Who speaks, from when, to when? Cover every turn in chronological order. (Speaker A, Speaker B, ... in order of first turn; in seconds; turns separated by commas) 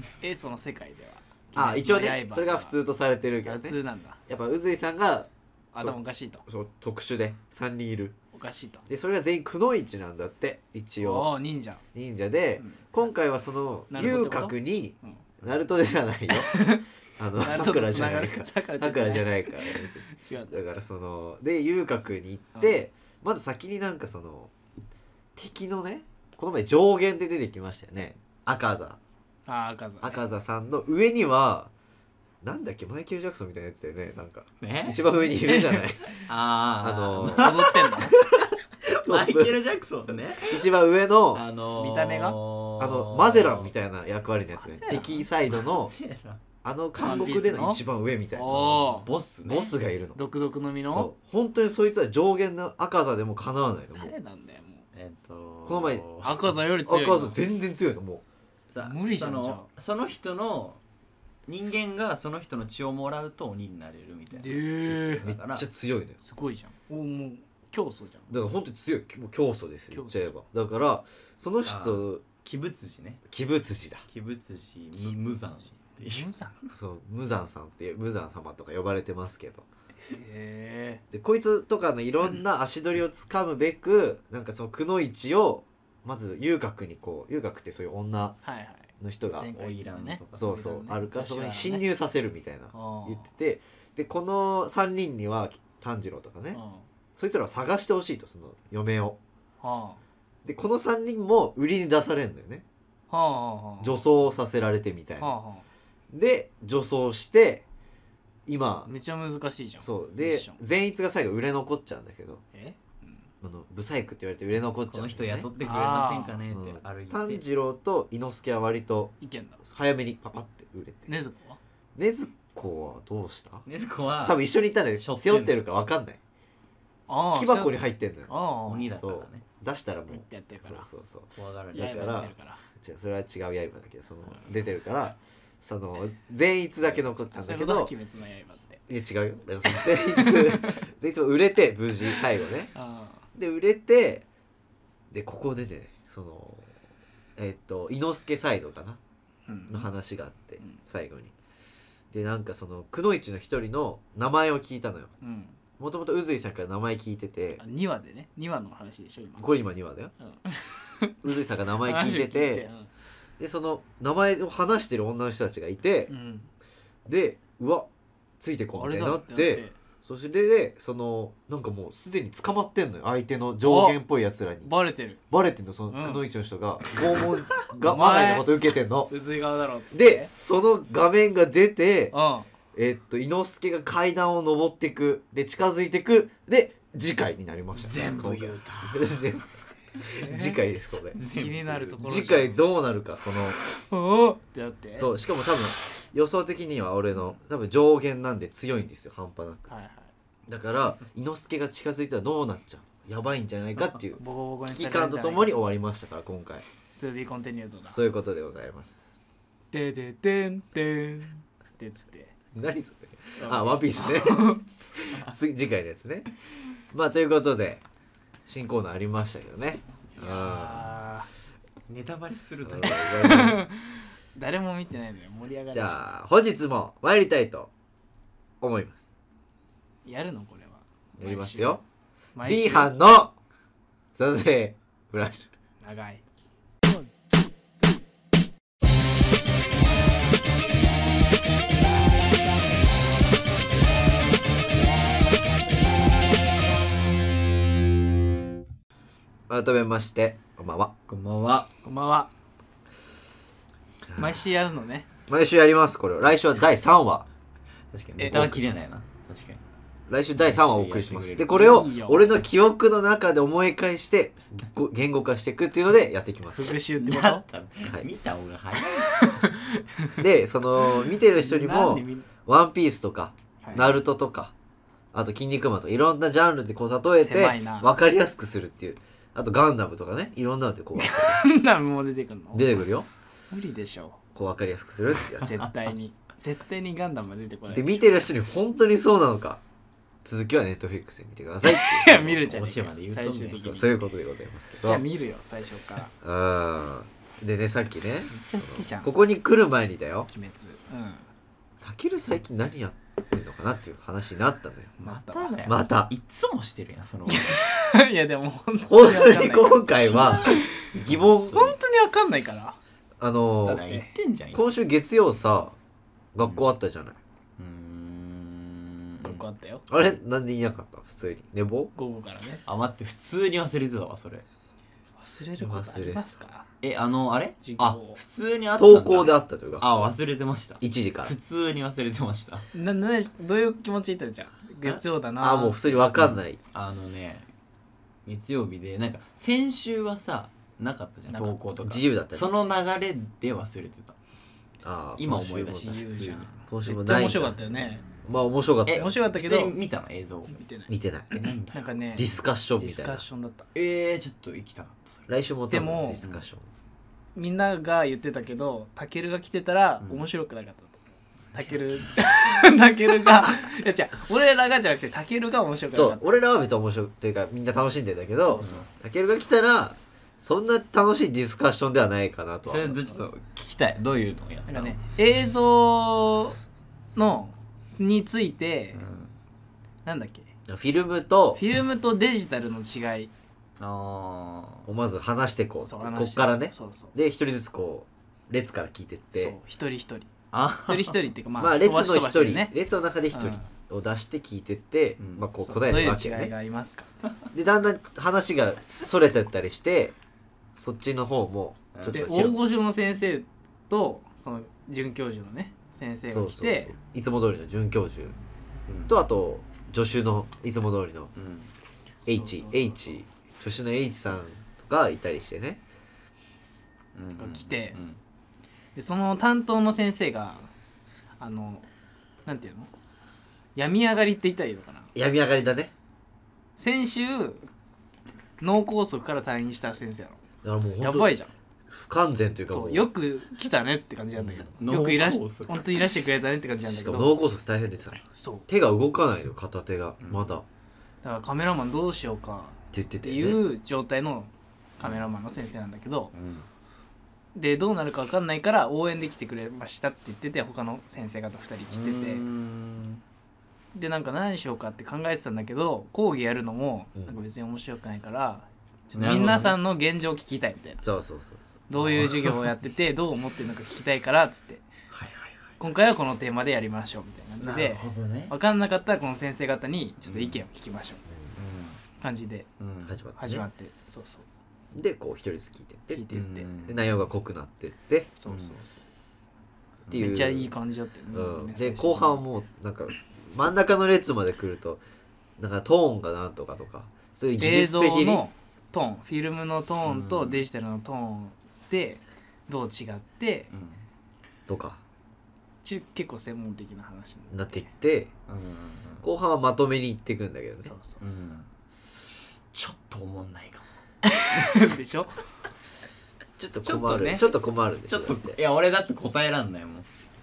Speaker A: 0.2-2.8, Speaker B: 1.6-8.2, Speaker A: 3.4-4.2, Speaker A: 5.7-6.5, Speaker A: 8.3-8.9, Speaker B: 8.9-11.3, Speaker A: 11.0-11.8, Speaker B: 11.9-24.5, Speaker A: 12.6-13.1, Speaker A: 13.9-15.2, Speaker A: 16.3-16.9, Speaker A: 17.4-20.6, Speaker B: 25.4-29.0, Speaker A: 29.5-30.2, Speaker B: 30.0-31.7, Speaker B: 32.4-36.2, Speaker C: 34.6-35.1, Speaker A: 35.4-35.8, Speaker C: 36.1-40.7, Speaker B: 36.8-37.8, Speaker A: 37.2-38.2, Speaker B: 38.9-39.6, Speaker B: 40.4-41.4, Speaker C: 41.3-43.7, Speaker A: 41.8-42.4, Speaker B: 42.8-45.9, Speaker A: 44.5-45.3, Speaker C: 44.9-46.4, Speaker B: 46.6-48.5, Speaker A: 47.0-49.1, Speaker C: 48.5-49.8, Speaker B: 49.5-50.2, Speaker A: 50.1-51.1, Speaker B: 50.9-54.1, Speaker A: 54.0-54.9, Speaker C: 54.9-56.5, Speaker B: 55.7-56.0, Speaker A: 56.2-57.4, Speaker B: 56.9-58.2, Speaker C: 58.7-60.8, Speaker A: 58.8-59.7, Speaker C: 61.5-65.7, Speaker A: 64.3-65.3, Speaker B: 65.2-66.2, Speaker A: 66.2-68.3, Speaker B: 68.3-72.2, Speaker A: 69.9-70.3, Speaker C: 71.7-73.2, Speaker B: 73.3-74.1, Speaker C: 74.1-76.3, Speaker A: 75.0-76.6, Speaker B: 76.7-79.7, Speaker A: 80.1-81.0, Speaker B: 81.1-88.4, Speaker A: 88.4-91.9, Speaker B: 89.0-89.5, Speaker C: 89.4-90.5, Speaker B: 90.4-96.6, Speaker A: 92.7-93.3, Speaker A: 96.5-96.9, Speaker B: 97.2-99.2, Speaker A: 99.6-100.0, Speaker B: 100.5-102.6, Speaker A: 103.1-104.0, Speaker B: 103.8-105.3, Speaker A: 105.2-105.7, Speaker B: 106.1-107.7, Speaker B: 108.5-108.9, Speaker A: 108.9-110.6, Speaker B: 109.8-112.4, Speaker A: 112.5-113.3, Speaker B: 113.4-115.5, Speaker C: 114.9-117.4, Speaker A: 115.6-116.4, Speaker B: 116.5-119.2, Speaker A: 119.2-119.6, Speaker B: 119.7-121.1, Speaker A: 121.1-121.6, Speaker B: 122.0-123.7, Speaker C: 123.7-124.4, Speaker B: 124.2-126.2, Speaker C: 125.0-125.5, Speaker A: 127.1-129.0, Speaker B: 127.3-128.3, Speaker C: 128.7-129.4, Speaker B: 129.0-137.9, Speaker A: 130.1-130.9, Speaker C: 131.3-132.2, Speaker A: 131.8-132.6, Speaker A: 137.2-138.8, Speaker B: 138.9-142.7, Speaker A: 139.7-140.9, Speaker A: 142.7-143.2, Speaker B: 143.3-144.2, Speaker B: 145.1-146.7, Speaker B: 147.4-149.0, Speaker A: 149.5-149.9, Speaker B: 149.7-151.3, Speaker B: 152.1-155.1, Speaker A: 155.2-155.6, Speaker B: 155.8-157.6, Speaker A: 157.6-159.5, Speaker B: 159.4-160.1, Speaker A: 160.2-161.2, Speaker B: 161.2-162.7, Speaker A: 161.8-162.9, Speaker B: 163.4-166.1, Speaker A: 166.1-166.5, Speaker B: 167.1-167.9, Speaker B: 168.4-174.7, Speaker A: 168.8-169.8, Speaker A: 173.6-174.0, Speaker A: 174.6-175.2, Speaker B: 175.3-179.1, Speaker A: 175.9-176.2, Speaker A: 177.8-178.5, Speaker A: 179.1-180.3, Speaker B: 179.9-182.1, Speaker A: 182.1-182.5, Speaker B: 182.7-191.2, Speaker C: 187.8-189.4, Speaker A: 190.2-190.6, Speaker C: 191.1-192.4, Speaker A: 191.2-192.6, Speaker B: 192.0-193.6, Speaker A: 193.7-195.1, Speaker B: 195.0-199.7, Speaker A: 199.7-200.1, Speaker B: 200.5-206.6, Speaker A: 204.2-205.6, Speaker A: 207.0-208.0, Speaker B: 207.9-209.2, Speaker A: 209.7-212.3, Speaker B: 212.5-216.3, Speaker A: 213.4-214.7, Speaker B: 216.9-217.8, Speaker B: 218.5-220.8, Speaker A: 220.2-221.3, Speaker C: 221.9-223.4, Speaker B: 222.6-223.6, Speaker A: 222.9-226.1, Speaker B: 225.7-227.7, Speaker B: 228.6-229.0, Speaker A: 230.1-231.8, Speaker B: 231.2-231.8, Speaker A: 232.3-232.9, Speaker B: 232.4-233.3, Speaker B: 234.2-235.5, Speaker A: 235.8-236.2, Speaker B: 249.5-250.9, Speaker C: 251.1-251.7, Speaker A: 251.8-252.3, Speaker B: 254.1-254.4, Speaker A: 254.2-255.1, Speaker B: 255.3-257.3, Speaker C: 257.9-259.6, Speaker A: 258.2-258.5, Speaker B: 258.2-258.6, Speaker B: 260.1-266.8, Speaker C: 260.4-261.9, Speaker A: 261.5-262.3, Speaker A: 266.5-267.4, Speaker C: 267.0-269.5, Speaker B: 267.8-268.1, Speaker A: 269.0-270.2, Speaker B: 270.2-274.5, Speaker A: 271.0-272.3, Speaker A: 273.6-273.9, Speaker B: 275.1-281.5, Speaker A: 277.1-277.9, Speaker A: 281.0-282.8, Speaker B: 282.5-283.1, Speaker A: 283.5-284.2, Speaker B: 284.4-285.7, Speaker A: 285.4-288.1, Speaker B: 287.7-289.6, Speaker B: 290.2-292.5, Speaker A: 291.6-293.9, Speaker C: 292.1-293.9, Speaker B: 293.6-295.0, Speaker A: 294.8-296.1, Speaker B: 296.2-300.3, Speaker A: 298.3-299.1, Speaker A: 300.3-301.3, Speaker B: 301.8-304.9, Speaker C: 305.0-307.6, Speaker A: 305.0-305.6, Speaker B: 305.6-306.1, Speaker A: 307.3-310.9, Speaker B: 308.9-311.7, Speaker C: 310.9-311.7, Speaker A: 311.5-312.8, Speaker B: 313.2-313.8, Speaker A: 313.6-314.1, Speaker C: 313.6-314.6, Speaker B: 314.5-315.8, Speaker B: 316.4-317.2, Speaker C: 317.6-319.4, Speaker A: 319.2-319.9, Speaker B: 319.9-321.9, Speaker A: 322.0-322.6, Speaker C: 322.7-324.4, Speaker A: 325.2-326.7, Speaker B: 325.6-326.4, Speaker C: 326.8-332.7, Speaker A: 327.6-328.2, Speaker B: 328.8-330.0, Speaker B: 330.8-331.4, Speaker A: 332.7-336.1, Speaker B: 335.4-336.6, Speaker C: 336.2-337.5, Speaker C: 338.3-344.2, Speaker A: 341.3-341.6, Speaker B: 341.8-342.5, Speaker B: 344.8-346.0, Speaker C: 345.2-346.5, Speaker A: 345.8-348.0, Speaker B: 346.7-347.6, Speaker B: 348.2-349.2, Speaker C: 348.9-350.6, Speaker A: 348.9-349.8, Speaker A: 350.5-353.7, Speaker B: 350.9-351.4, Speaker C: 351.3-352.3, Speaker B: 352.2-353.2, Speaker C: 353.8-355.3, Speaker B: 355.3-356.7, Speaker A: 355.7-356.2, Speaker C: 356.2-356.5, Speaker A: 357.4-361.0, Speaker A: 361.5-366.2, Speaker C: 361.6-362.1, Speaker B: 365.9-373.0, Speaker A: 368.4-368.8, Speaker C: 368.6-368.9, Speaker C: 372.6-375.0, Speaker A: 374.7-376.6, Speaker A: 377.2-379.0, Speaker C: 378.9-379.4, Speaker A: 380.1-380.5, Speaker B: 380.7-381.6, Speaker A: 381.6-383.3, Speaker C: 383.8-384.9, Speaker B: 384.9-389.6, Speaker A: 385.8-387.1, Speaker A: 389.4-390.3, Speaker C: 390.5-391.2, Speaker A: 390.9-392.7, Speaker B: 391.6-396.5, Speaker A: 393.3-393.7, Speaker C: 395.2-395.5, Speaker A: 395.6-397.1, Speaker B: 397.5-400.1, Speaker B: 400.8-402.6, Speaker C: 401.9-402.3, Speaker A: 402.1-406.9, Speaker B: 406.3-408.4, Speaker C: 408.9-409.2, Speaker B: 409.1-411.3, Speaker C: 411.4-411.7, Speaker B: 412.3-415.8, Speaker A: 412.3-413.1, Speaker C: 417.1-418.2, Speaker A: 417.4-418.0, Speaker A: 418.9-420.7, Speaker A: 421.4-421.9, Speaker A: 422.5-422.9, Speaker A: 423.8-425.1, Speaker B: 425.1-425.9, Speaker A: 426.8-427.7, Speaker A: 428.6-430.4, Speaker B: 430.6-431.3, Speaker A: 431.0-431.5, Speaker B: 431.9-433.1, Speaker A: 432.7-437.4, Speaker C: 434.7-435.9, Speaker B: 436.9-440.6, Speaker A: 438.2-438.7, Speaker C: 440.2-440.5, Speaker A: 441.2-446.3, Speaker B: 442.9-443.6, Speaker C: 445.0-445.3, Speaker C: 446.3-446.7, Speaker A: 447.6-452.4, Speaker C: 451.9-453.2, Speaker A: 453.9-461.0, Speaker C: 459.2-459.8, Speaker B: 461.0-461.8, Speaker A: 461.9-464.9, Speaker C: 461.9-462.7, Speaker C: 465.1-465.7, Speaker A: 465.8-471.2, Speaker C: 467.6-468.5, Speaker C: 470.2-470.6, Speaker C: 471.6-472.0, Speaker A: 472.2-472.7, Speaker C: 472.8-473.2, Speaker B: 473.0-473.7, Speaker A: 473.4-474.5, Speaker B: 474.9-478.4, Speaker A: 476.1-476.7, Speaker C: 476.3-477.1, Speaker A: 478.4-479.0, Speaker C: 478.5-478.8, Speaker C: 480.1-480.3, Speaker B: 480.1-480.7, Speaker A: 480.1-482.4, Speaker B: 481.3-485.0, Speaker B: 485.6-488.4, Speaker A: 487.6-493.7, Speaker C: 490.0-490.7, Speaker C: 493.7-494.0, Speaker B: 494.7-495.0, Speaker A: 495.8-497.9, Speaker B: 497.5-498.3, Speaker C: 498.5-499.2, Speaker B: 499.2-500.9, Speaker A: 500.8-501.2, Speaker C: 501.2-501.7, Speaker C: 502.7-503.9, Speaker A: 504.2-505.4, Speaker C: 504.5-504.9, Speaker B: 506.6-508.6, Speaker A: 506.8-507.6, Speaker C: 508.1-510.1